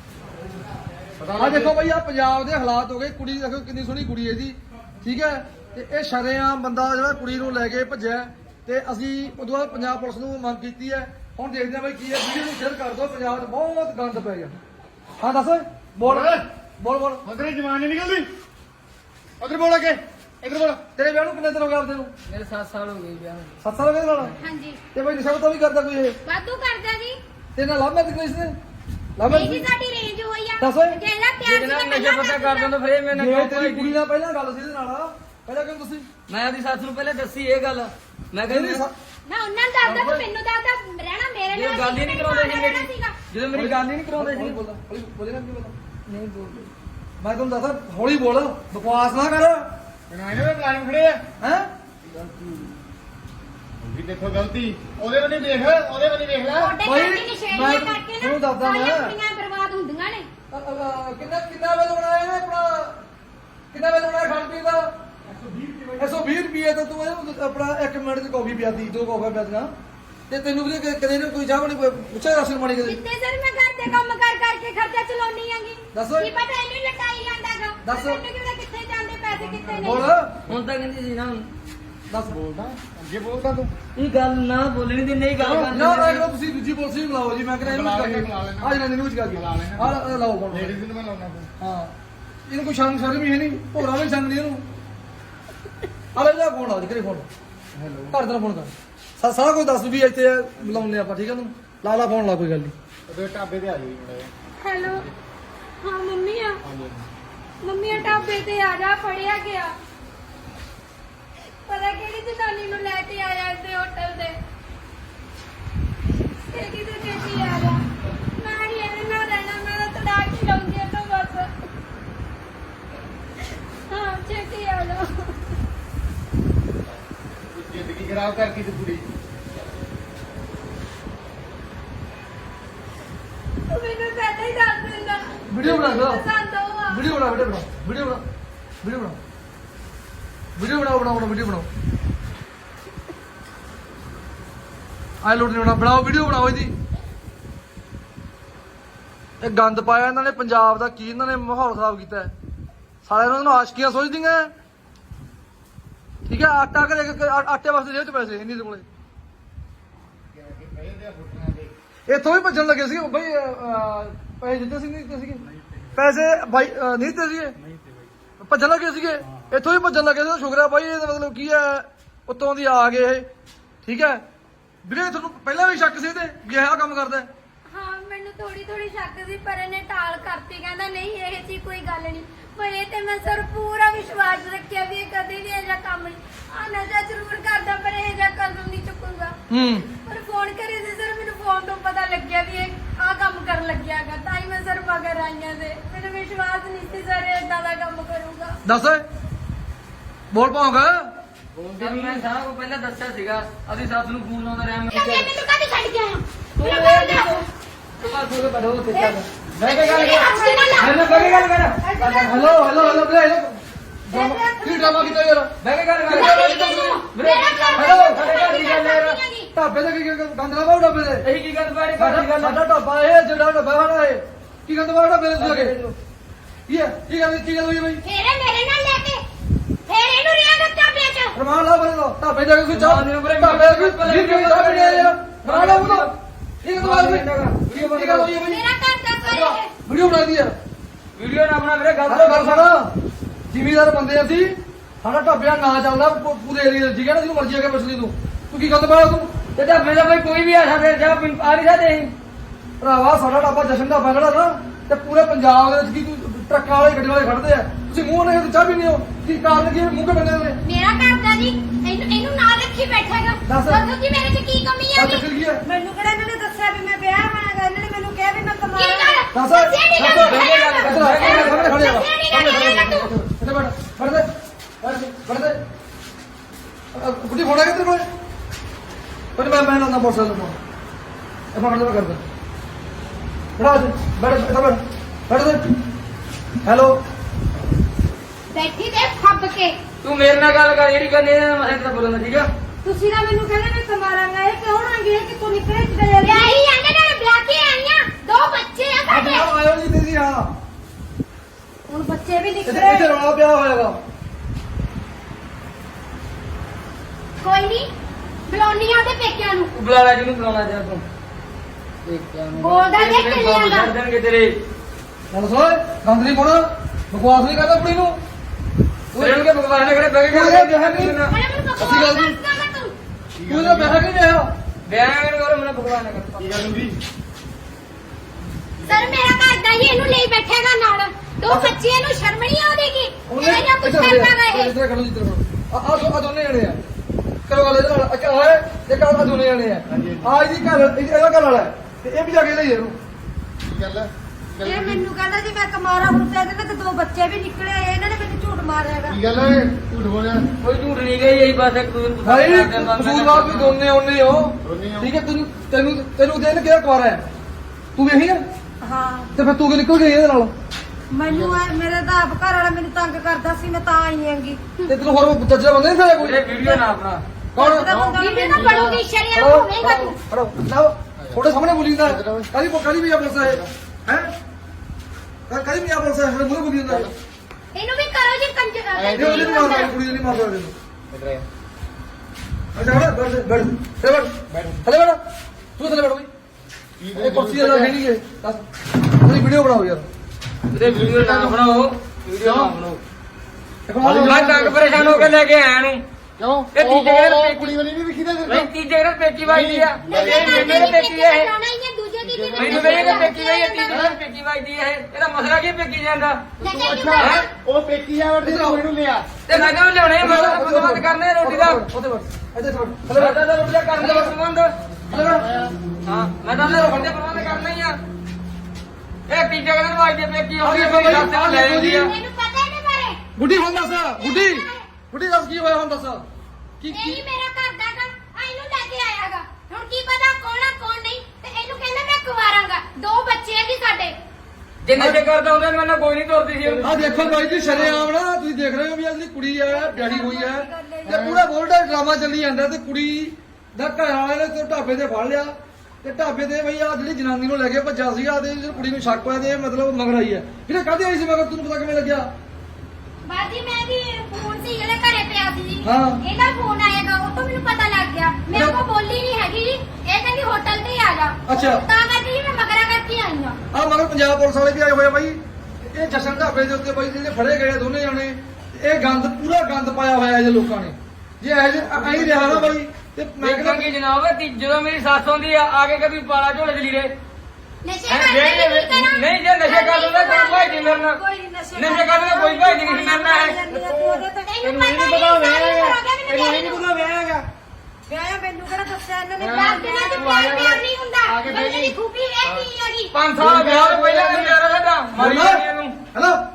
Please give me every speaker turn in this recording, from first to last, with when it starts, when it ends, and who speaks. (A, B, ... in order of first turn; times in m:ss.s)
0:01.2-0:01.8 A
0:01.4-0:14.6 B
0:15.2-0:17.2 B
0:16.0-0:16.4 A
0:17.2-0:18.3 A
0:19.4-0:20.8 A
0:21.0-0:22.1 B
0:22.3-0:23.6 C
0:23.6-0:24.4 B
0:24.4-0:24.8 D
0:24.9-0:26.2 B
0:26.3-0:27.2 D
0:27.6-0:28.6 B
0:29.2-0:29.6 B
0:29.3-0:32.7 D
0:30.6-0:31.0 B
0:31.4-0:34.0 C
0:33.1-0:36.1 B
0:36.3-0:38.9 C
0:38.5-0:38.9 B
0:39.3-0:43.2 D
0:39.8-0:40.2 B
0:41.5-0:44.6 C
0:43.5-0:45.8 B
0:46.1-0:46.7 C
0:47.2-0:49.7 B
0:50.1-0:51.2 A
0:51.4-0:51.7 B
0:52.1-0:52.6 C
0:53.8-0:56.8 A
0:56.6-1:00.3 D
0:56.8-0:59.2 B
1:00.5-1:03.0 B
1:03.7-1:04.9 B
1:05.3-1:06.1 A
1:06.0-1:09.7 B
1:10.3-1:13.0 B
1:12.8-1:20.1 D
1:15.9-1:16.3 B
1:17.8-1:18.2 B
1:19.3-1:20.6 A
1:19.8-1:20.3 B
1:20.5-1:21.5 C
1:22.1-1:22.4 B
1:22.3-1:23.7 A
1:24.0-1:26.2 C
1:25.4-1:25.7 A
1:25.7-1:30.8 B
1:27.6-1:30.0 A
1:30.5-1:31.5 A
1:31.6-1:31.9 B
1:32.5-1:34.6 B
1:36.2-1:37.3 B
1:37.7-1:38.2 A
1:38.1-1:42.7 B
1:40.6-1:40.9 A
1:43.1-1:44.3 A
1:44.6-1:45.1 D
1:44.8-1:45.1 A
1:45.8-1:46.6 D
1:46.6-1:47.1 A
1:47.6-1:49.8 D
1:47.9-1:48.3 A
1:51.7-1:54.4 D
1:56.5-1:57.8 D
1:58.4-2:01.5 D
2:03.9-2:05.4 D
2:07.5-2:09.0 A
2:13.7-2:17.4 D
2:15.5-2:16.2 B
2:16.9-2:18.2 B
2:18.8-2:19.2 B
2:20.6-2:21.7 B
2:25.2-2:26.7 B
2:29.4-2:32.3 B
2:33.0-2:34.5 B
2:36.3-2:38.8 B
2:40.3-2:41.7 A
2:42.1-2:45.4 B
2:45.5-2:46.1 A
2:46.0-2:47.6 B
2:47.6-2:48.1 A
2:48.4-2:53.3 B
2:53.8-2:54.2 B
2:54.8-2:57.3 B
2:57.7-3:09.4 D
3:09.5-3:09.9 B
3:10.0-3:18.6 D
3:18.6-3:19.0 B
3:20.3-3:21.1 B
3:21.5-3:22.2 A
3:21.8-3:25.3 C
3:24.9-3:27.4 D
3:26.6-3:27.4 C
3:28.0-3:31.8 C
3:29.1-3:31.5 D
3:29.9-3:33.1 E
3:32.0-3:35.5 B
3:34.1-3:35.2 E
3:35.6-3:39.2 C
3:36.1-3:36.9 B
3:36.1-3:39.5 D
3:37.8-3:38.2 B
3:39.6-3:41.2 B
3:41.2-3:42.6 C
3:42.0-3:45.7 B
3:45.4-3:46.0 C
3:46.7-3:48.0 B
3:48.0-3:49.2 D
3:49.9-3:51.4 D
3:51.4-3:56.1 B
3:52.7-3:56.1 C
3:56.6-3:58.6 B
3:56.8-3:58.3 C
3:58.4-3:59.7 D
3:59.2-4:00.6 B
4:01.2-4:02.7 C
4:02.1-4:02.9 B
4:03.5-4:09.4 B
4:09.6-4:12.1 C
4:12.8-4:20.6 B
4:20.6-4:25.2 D
4:23.5-4:23.8 B
4:25.0-4:25.6 B
4:25.6-4:29.3 E
4:28.8-4:33.1 D
4:29.3-4:34.3 B
4:30.2-4:32.0 C
4:34.8-4:35.6 B
4:37.0-4:38.1 B
4:39.4-4:40.6 B
4:41.5-4:42.2 B
4:43.6-4:45.7 B
4:46.6-4:47.0 B
4:48.5-4:49.8 D
4:50.0-4:52.5 C
4:52.8-4:56.6 E
4:56.2-4:59.5 D
4:59.1-5:00.5 B
5:01.9-5:03.1 E
5:02.7-5:04.0 B
5:07.4-5:07.9 D
5:08.5-5:09.7 D
5:09.7-5:11.0 C
5:12.0-5:14.6 C
5:12.6-5:13.9 D
5:15.3-5:18.2 B
5:19.1-5:19.5 B
5:19.2-5:21.3 C
5:20.3-5:21.2 B
5:21.3-5:22.9 D
5:21.8-5:22.4 B
5:23.4-5:24.0 A
5:23.5-5:24.5 B
5:24.9-5:26.7 C
5:26.4-5:27.0 A
5:28.8-5:29.1 A
5:28.9-5:34.7 D
5:31.5-5:31.7 B
5:33.3-5:36.8 B
5:37.5-5:43.0 B
5:39.9-5:40.3 A
5:43.6-5:45.0 A
5:44.6-5:49.2 E
5:49.1-5:50.5 A
5:50.6-5:53.8 C
5:52.2-5:57.2 B
5:54.6-5:55.1 A
5:58.0-5:58.4 B
5:58.8-5:59.3 E
5:59.4-6:00.5 B
6:01.1-6:04.6 E
6:01.3-6:01.6 A
6:04.9-6:06.6 B
6:06.2-6:07.2 C
6:07.6-6:07.9 B
6:07.6-6:08.9 E
6:07.8-6:09.0 A
6:08.2-6:10.2 D
6:09.3-6:14.3 B
6:11.2-6:12.5 A
6:13.4-6:13.7 A
6:15.5-6:17.1 B
6:16.9-6:17.1 A
6:17.7-6:20.0 D
6:19.0-6:20.0 A
6:19.2-6:20.7 B
6:21.1-6:21.5 A
6:22.8-6:25.2 B
6:24.5-6:24.8 A
6:25.8-6:26.3 B
6:27.0-6:28.0 A
6:27.2-6:30.1 B
6:30.7-6:33.0 C
6:30.7-6:31.6 A
6:33.9-6:34.7 B
6:34.0-6:35.4 A
6:34.2-6:36.0 C
6:36.4-6:38.7 A
6:36.8-6:37.8 C
6:38.5-6:41.5 C
6:39.5-6:41.0 A
6:40.0-6:44.1 D
6:42.2-6:43.3 A
6:42.6-6:46.4 C
6:43.9-6:44.2 A
6:46.6-6:47.5 D
6:46.6-6:49.4 A
6:47.2-6:47.5 C
6:48.4-6:48.8 B
6:49.5-6:51.8 C
6:49.5-6:53.4 B
6:53.1-6:54.7 C
6:54.0-6:54.3 B
6:55.1-6:55.8 A
6:55.1-6:55.4 B
6:56.1-6:58.0 C
6:56.6-6:57.2 B
6:59.3-7:02.1 C
7:00.6-7:02.1 B
7:01.8-7:04.9 D
7:03.4-7:06.2 B
7:06.8-7:07.2 B
7:06.9-7:14.2 D
7:14.8-7:17.3 C
7:14.9-7:15.2 B
7:16.6-7:18.1 A
7:16.8-7:32.3 B
7:19.7-7:21.3 E
7:21.0-7:21.4 A
7:33.3-7:43.6 D
7:35.8-7:36.2 B
7:41.5-7:41.8 B
7:43.7-7:53.9 B
7:51.8-7:52.8 A
7:53.4-7:57.1 C
7:57.8-8:00.9 D
7:58.1-8:01.2 C
8:00.5-8:04.5 E
8:01.8-8:03.6 C
8:03.7-8:07.5 A
8:04.4-8:06.8 D
8:08.1-8:10.4 E
8:09.4-8:12.7 A
8:09.4-8:13.1 D
8:10.4-8:10.7 C
8:13.1-8:16.0 C
8:13.4-8:14.6 A
8:15.2-8:16.4 B